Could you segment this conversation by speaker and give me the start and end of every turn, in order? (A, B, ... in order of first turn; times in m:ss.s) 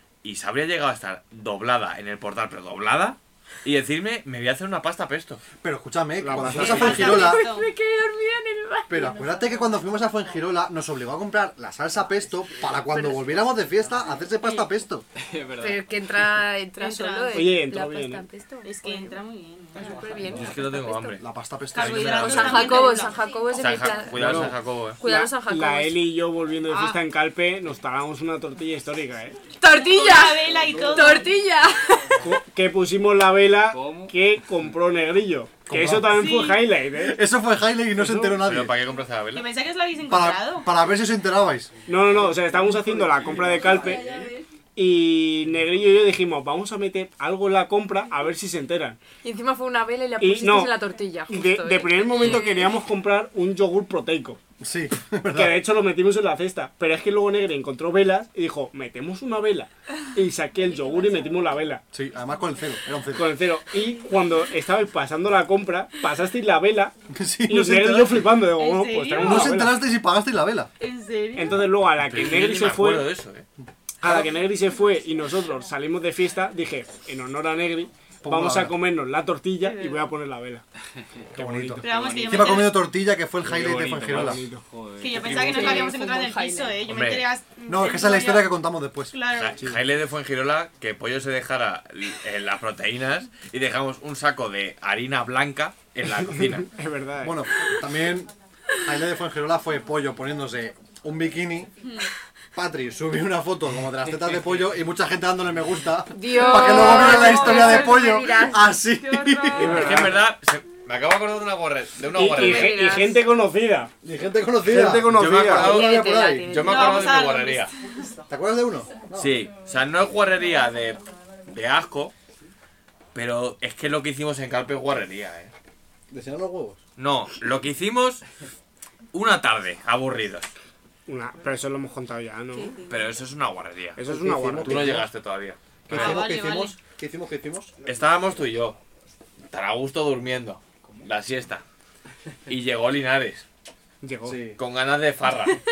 0:00.2-0:05.4 A
0:05.6-0:07.4 B
0:06.2-0:07.2 C
0:06.6-0:07.7 D
0:06.6-0:09.5 E
0:08.9-0:15.0 B
0:12.9-0:13.2 E
0:15.2-0:15.9 F
0:15.6-0:19.1 E
0:16.8-0:17.6 D
0:17.3-0:18.2 C
0:18.6-0:20.0 D
0:19.7-0:20.4 F
0:19.8-0:21.2 E
0:20.3-0:21.2 A
0:21.2-0:23.0 B
0:21.7-0:23.2 D
0:21.8-0:22.3 A
0:22.0-0:26.0 E
0:23.5-0:25.0 A
0:24.1-0:29.4 C
0:26.7-0:26.9 E
0:29.6-0:32.2 E
0:29.8-0:31.3 D
0:30.6-0:31.4 F
0:32.2-0:37.2 C
0:33.7-0:34.1 F
0:35.7-0:36.3 B
0:36.1-0:36.7 D
0:37.0-0:38.8 B
0:38.0-0:38.4 C
0:38.4-0:39.5 A
0:39.3-0:40.7 D
0:40.1-0:41.7 B
0:41.8-0:44.4 F
0:41.9-0:44.0 C
0:43.6-0:44.3 E
0:44.8-0:49.0 C
0:49.2-0:52.8 E
0:50.2-0:54.4 C
0:54.6-0:55.6 B
0:55.3-1:01.8 C
1:01.9-1:03.4 B
1:03.1-1:06.9 C
1:07.1-1:08.4 B
1:07.5-1:09.8 C
1:08.5-1:09.6 D
1:09.2-1:10.7 B
1:10.8-1:11.6 D
1:11.3-1:13.1 C
1:11.9-1:13.4 A
1:14.0-1:20.6 C
1:14.0-1:14.3 B
1:18.2-1:18.8 B
1:19.6-1:20.0 D
1:21.3-1:24.4 B
1:21.4-1:21.8 C
1:21.8-1:22.9 D
1:21.8-1:22.8 F
1:23.4-1:25.7 F
1:24.1-1:24.6 C
1:25.0-1:28.5 D
1:25.2-1:25.6 A
1:25.2-1:26.7 E
1:26.8-1:27.3 A
1:27.6-1:29.2 B
1:29.1-1:29.6 D
1:29.3-1:36.7 A
1:36.3-1:37.7 C
1:37.2-1:38.3 B
1:38.8-1:41.7 B
1:41.8-1:42.1 D
1:42.5-1:49.9 B
1:44.2-1:44.5 F
1:46.1-1:48.7 E
1:47.3-1:47.9 D
1:48.9-1:50.0 D
1:49.5-1:50.2 C
1:49.6-1:52.8 A
1:52.1-1:53.9 C
1:52.3-1:53.2 E
1:54.0-1:56.6 B
1:54.6-1:55.8 C
1:55.1-1:57.7 A
1:55.6-1:57.3 E
1:56.6-1:58.1 D
1:58.3-1:59.4 B
1:59.2-2:02.1 A
2:03.1-2:05.5 A
2:06.1-2:06.8 B
2:07.0-2:08.2 A
2:09.1-2:10.5 A
2:11.1-2:12.7 C
2:12.5-2:13.0 D
2:12.9-2:14.0 A
2:14.0-2:15.0 C
2:14.0-2:15.0 B
2:14.6-2:16.3 A
2:15.9-2:17.7 B
2:15.9-2:16.8 D
2:17.8-2:18.8 A
2:19.5-2:21.6 A
2:22.5-2:23.4 A
2:24.0-2:24.4 C
2:24.2-2:24.6 B
2:24.6-2:25.6 A